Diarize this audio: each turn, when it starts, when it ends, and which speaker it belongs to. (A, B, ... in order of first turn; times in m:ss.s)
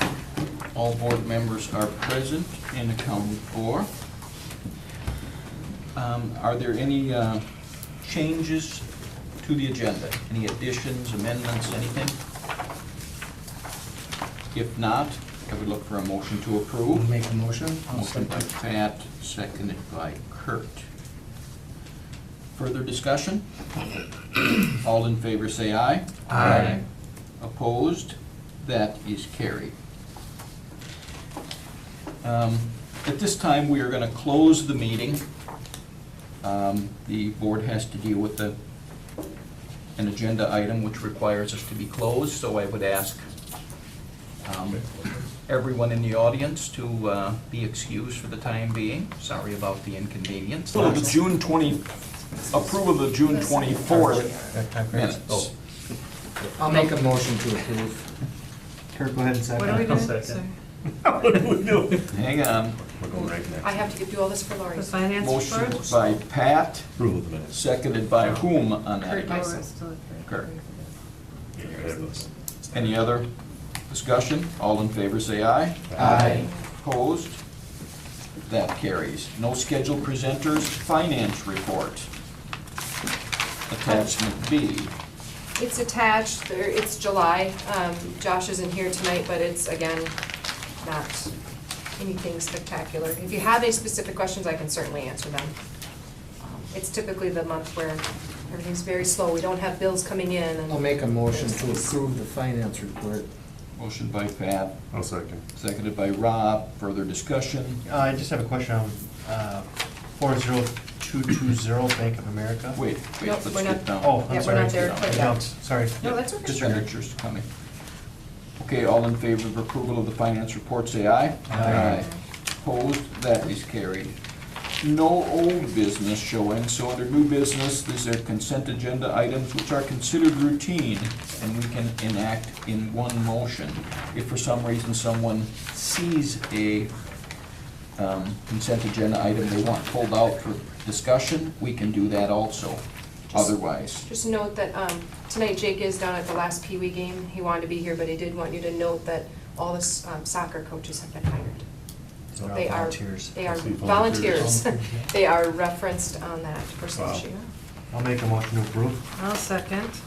0:00.7-0:03.9 A
0:06.0-0:07.5 A
0:08.0-0:08.9 A
0:09.4-0:12.2 A
0:14.5-0:17.1 A
0:16.9-0:18.1 B
0:17.9-0:20.9 A
0:22.6-0:23.4 A
0:24.7-0:26.8 A
0:26.3-0:26.8 B
0:26.5-0:26.7 C
0:27.4-0:29.7 A
0:32.2-0:35.2 A
0:36.4-0:38.6 A
0:40.0-0:43.3 A
0:44.4-0:51.9 A
0:52.5-0:54.6 D
0:52.5-0:55.5 A
0:54.2-0:55.2 E
0:56.4-0:58.0 B
0:58.9-1:00.4 E
0:59.6-1:00.5 F
0:59.7-1:00.4 C
1:01.0-1:03.9 C
1:02.1-1:02.8 A
1:03.6-1:05.1 D
1:04.8-1:06.2 F
1:05.2-1:06.9 A
1:07.0-1:07.6 C
1:07.5-1:09.7 A
1:09.0-1:10.5 F
1:09.1-1:09.7 D
1:10.2-1:10.5 A
1:11.6-1:12.3 C
1:12.7-1:13.3 A
1:13.9-1:17.4 A
1:15.9-1:16.2 C
1:16.0-1:16.4 B
1:18.5-1:22.1 A
1:23.7-1:24.9 A
1:23.9-1:24.1 D
1:25.6-1:30.1 D
1:30.8-1:31.3 D
1:32.0-1:35.5 D
1:36.4-1:41.9 D
1:40.7-1:43.3 B
1:43.8-1:44.8 A
1:44.9-1:45.4 C
1:45.6-1:47.8 A
1:47.8-1:52.8 E
1:52.7-1:55.3 A
1:53.2-1:55.4 D
1:54.0-1:56.8 E
1:56.0-1:56.8 D
1:56.0-1:57.4 A
1:58.6-2:04.2 A
2:01.5-2:02.0 E
2:04.8-2:16.9 A
2:18.0-2:24.1 A
2:23.3-2:31.6 D
2:32.4-2:33.3 E
2:32.5-2:37.5 D
2:33.4-2:34.7 C
2:36.9-2:37.2 C
2:37.9-2:39.1 E
2:39.2-2:40.0 F